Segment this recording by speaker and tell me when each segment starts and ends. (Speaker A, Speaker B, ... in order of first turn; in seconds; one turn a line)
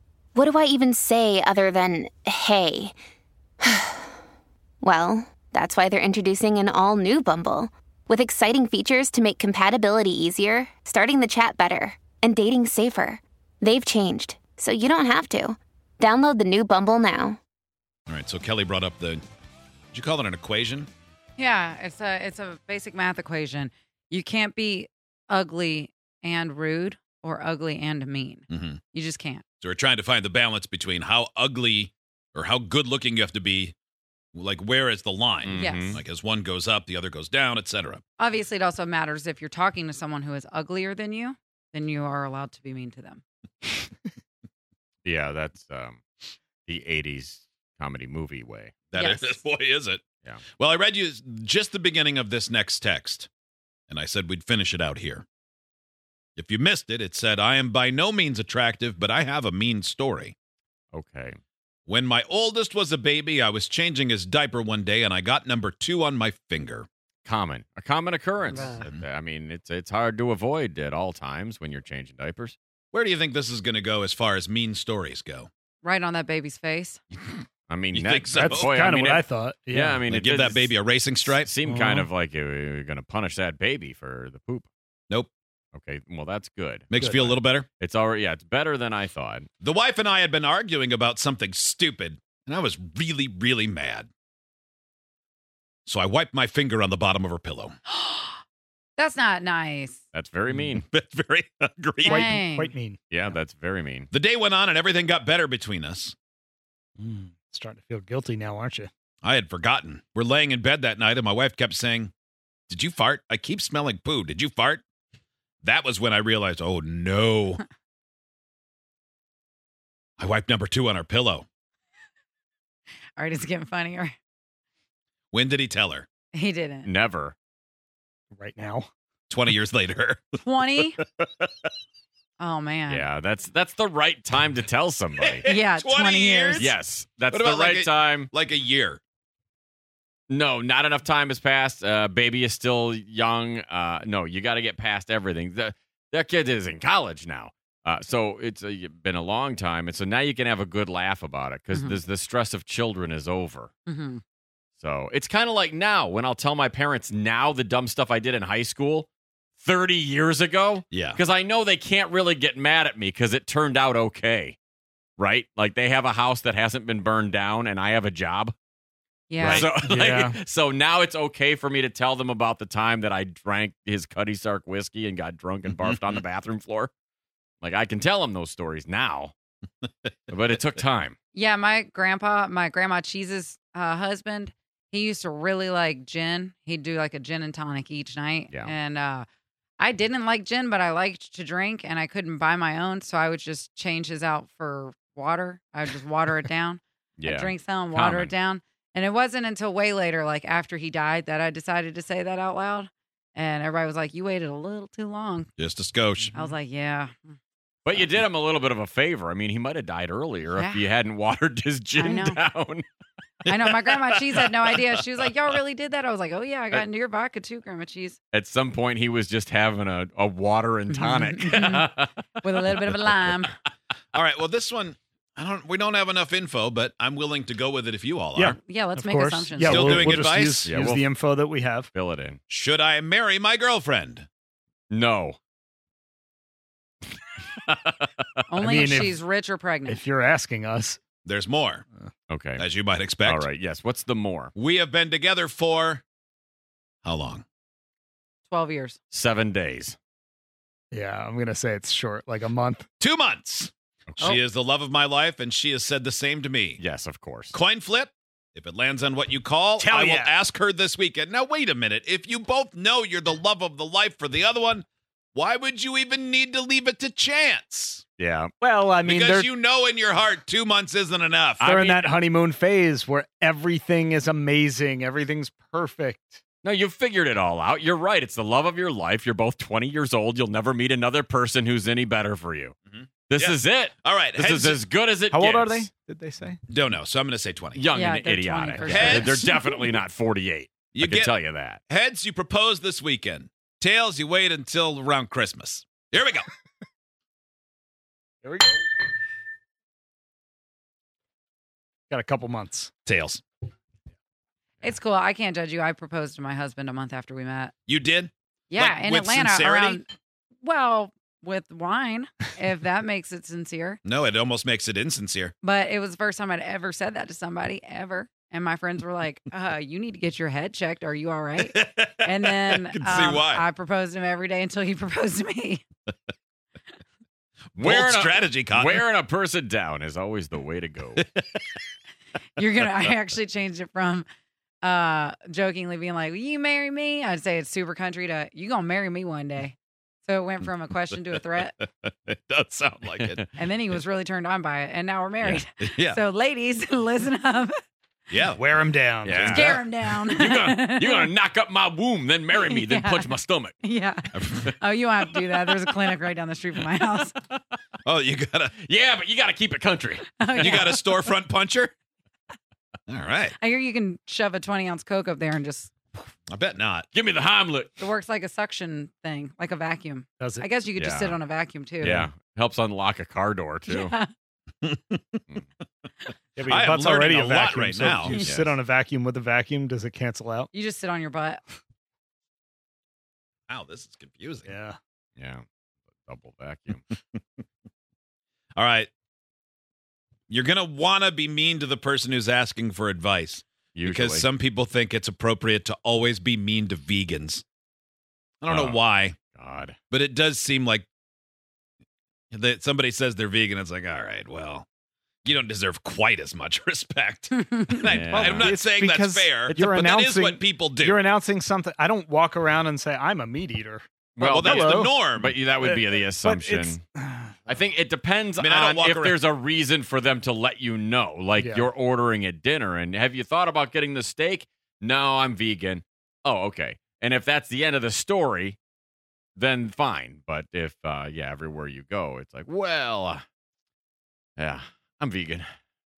Speaker A: 0.3-2.9
Speaker A: 3.6-4.1
Speaker A: 4.8-17.4
Speaker B: 18.1-19.2
Speaker B: 19.9-20.9
Speaker C: 21.4-29.4
Speaker B: 28.5-28.8
Speaker B: 29.6-33.7
Speaker B: 34.3-38.0
Speaker D: 35.4-36.0
Speaker C: 35.5-36.0
Speaker C: 38.2-43.2
Speaker D: 45.0-46.0
Speaker D: 46.6-48.7
Speaker B: 48.9-50.0
Speaker C: 48.9-49.4
Speaker B: 50.6-53.3
Speaker B: 53.9-55.2
Speaker B: 56.4-60.3
Speaker D: 60.9-61.4
Speaker B: 61.9-66.9
Speaker D: 67.2-72.5
Speaker C: 68.5-68.8
Speaker B: 72.9-75.5
Speaker C: 75.8-77.0
Speaker D: 77.7-84.7
Speaker B: 77.9-78.7
Speaker E: 78.3-80.0
Speaker B: 80.0-81.5
Speaker E: 81.6-82.1
Speaker D: 85.7-86.9
Speaker B: 86.9-87.7
Speaker E: 86.9-87.4
Speaker D: 87.8-89.5
Speaker B: 89.6-94.1
Speaker B: 95.8-97.7
Speaker C: 97.9-98.4
Speaker C: 99.0-100.0
Speaker D: 100.1-100.8
Speaker B: 100.5-102.3
Speaker C: 102.0-102.7
Speaker E: 102.0-103.0
Speaker D: 103.1-104.1
Speaker B: 104.1-106.1
Speaker E: 107.0-108.9
Speaker B: 109.2-112.1
Speaker B: 112.7-114.8
Speaker B: 115.6-117.6
Speaker B: 120.2-121.4
Speaker C: 123.2-124.2
Speaker B: 125.3-126.1
Speaker C: 126.3-126.9
Speaker D: 126.8-127.3
Speaker E: 128.3-128.9
Speaker B: 129.3-130.4
Speaker C: 130.4-131.0
Speaker B: 131.2-131.5
Speaker C: 132.4-133.1
Speaker D: 132.9-135.4
Speaker B: 135.2-136.8
Speaker C: 135.4-136.7
Speaker D: 136.6-138.3
Speaker B: 137.3-139.0
Speaker D: 140.3-153.7
Speaker C: 151.7-152.0
Speaker C: 153.9-154.2
Speaker D: 154.8-164.6
Speaker B: 160.9-161.2
Speaker D: 165.2-168.5
Speaker C: 169.3-169.7
Speaker D: 169.4-176.9
Speaker E: 169.8-170.4
Speaker B: 175.9-176.2
Speaker D: 177.6-179.3
Speaker D: 180.3-181.2
Speaker C: 181.3-189.2
Speaker C: 189.8-205.5
Speaker D: 197.2-198.3
Speaker B: 205.6-206.3
Speaker C: 206.3-207.3
Speaker D: 207.8-212.8
Speaker C: 210.5-210.8
Speaker C: 211.9-212.4
Speaker C: 213.5-218.2
Speaker D: 213.7-215.3
Speaker D: 218.3-223.5
Speaker C: 220.9-221.9
Speaker C: 222.4-223.5
Speaker B: 224.1-228.6
Speaker E: 228.3-231.9
Speaker C: 228.6-230.2
Speaker B: 229.6-230.7
Speaker D: 230.6-231.2
Speaker D: 231.9-232.4
Speaker B: 232.5-234.3
Speaker D: 234.9-235.4
Speaker D: 237.6-238.1
Speaker C: 238.5-240.0
Speaker E: 238.6-239.2
Speaker E: 239.9-241.0
Speaker B: 241.2-241.8
Speaker D: 242.3-242.7
Speaker B: 242.6-243.5
Speaker D: 243.2-244.5
Speaker B: 244.5-246.0
Speaker B: 247.0-247.4
Speaker C: 248.5-249.0
Speaker D: 249.1-249.9
Speaker E: 250.9-252.8
Speaker B: 253.0-256.8
Speaker D: 256.8-257.6
Speaker B: 257.5-268.0
Speaker E: 259.8-260.3
Speaker D: 268.2-268.5
Speaker E: 268.6-269.5
Speaker B: 269.0-271.7
Speaker E: 271.6-276.4
Speaker D: 271.6-272.1
Speaker D: 276.6-282.7
Speaker B: 282.9-284.8
Speaker D: 283.3-285.9
Speaker E: 285.3-286.6
Speaker B: 286.7-287.9
Speaker D: 287.8-291.8
Speaker C: 287.9-289.6
Speaker B: 288.8-289.5
Speaker B: 290.9-291.3
Speaker B: 291.9-296.4
Speaker E: 298.4-298.8
Speaker E: 302.1-302.9
Speaker B: 303.1-303.4
Speaker C: 304.8-307.7
Speaker B: 307.9-310.0
Speaker C: 308.7-310.1
Speaker C: 310.6-314.0
Speaker B: 314.0-315.5
Speaker C: 315.6-325.8
Speaker B: 321.6-323.6
Speaker B: 327.8-329.1
Speaker D: 327.8-331.2
Speaker B: 331.1-331.8
Speaker C: 332.6-334.2
Speaker C: 334.8-341.8
Speaker B: 341.8-343.4
Speaker D: 343.1-343.5
Speaker C: 343.6-347.7
Speaker B: 345.4-346.2
Speaker B: 348.3-348.6
Speaker E: 348.5-349.8
Speaker D: 349.2-353.8
Speaker C: 349.4-351.3
Speaker C: 352.6-357.3
Speaker B: 354.3-354.7
Speaker D: 355.5-356.1
Speaker B: 358.0-358.7
Speaker D: 358.8-360.8
Speaker C: 360.4-361.3
Speaker B: 360.6-361.9
Speaker B: 363.1-363.5
Speaker C: 363.6-366.2
Speaker B: 366.5-367.1
Speaker D: 367.1-368.0
Speaker C: 368.0-372.3
Speaker E: 370.4-370.6
Speaker D: 370.9-371.4
Speaker D: 372.0-374.1
Speaker C: 373.9-374.3
Speaker B: 374.8-375.6
Speaker E: 376.6-380.7
Speaker B: 376.7-378.4
Speaker D: 378.4-378.7
Speaker C: 380.7-381.6
Speaker B: 383.7-384.7
Speaker E: 384.6-385.0
Speaker D: 385.4-385.6
Speaker D: 386.2-387.0
Speaker B: 387.1-387.4
Speaker B: 388.8-389.1
Speaker B: 390.5-397.6
Speaker D: 393.9-394.4
Speaker B: 398.6-399.4
Speaker D: 398.7-399.0
Speaker D: 399.5-400.0
Speaker B: 400.1-401.1
Speaker B: 402.5-404.9
Speaker B: 405.4-411.2
Speaker D: 408.0-408.7
Speaker E: 408.3-415.2
Speaker D: 414.4-417.0
Speaker B: 414.4-415.6
Speaker E: 415.7-417.8
Speaker D: 417.7-428.8
Speaker B: 418.6-419.4
Speaker E: 421.6-421.9
Speaker D: 429.6-433.4
Speaker D: 434.6-435.7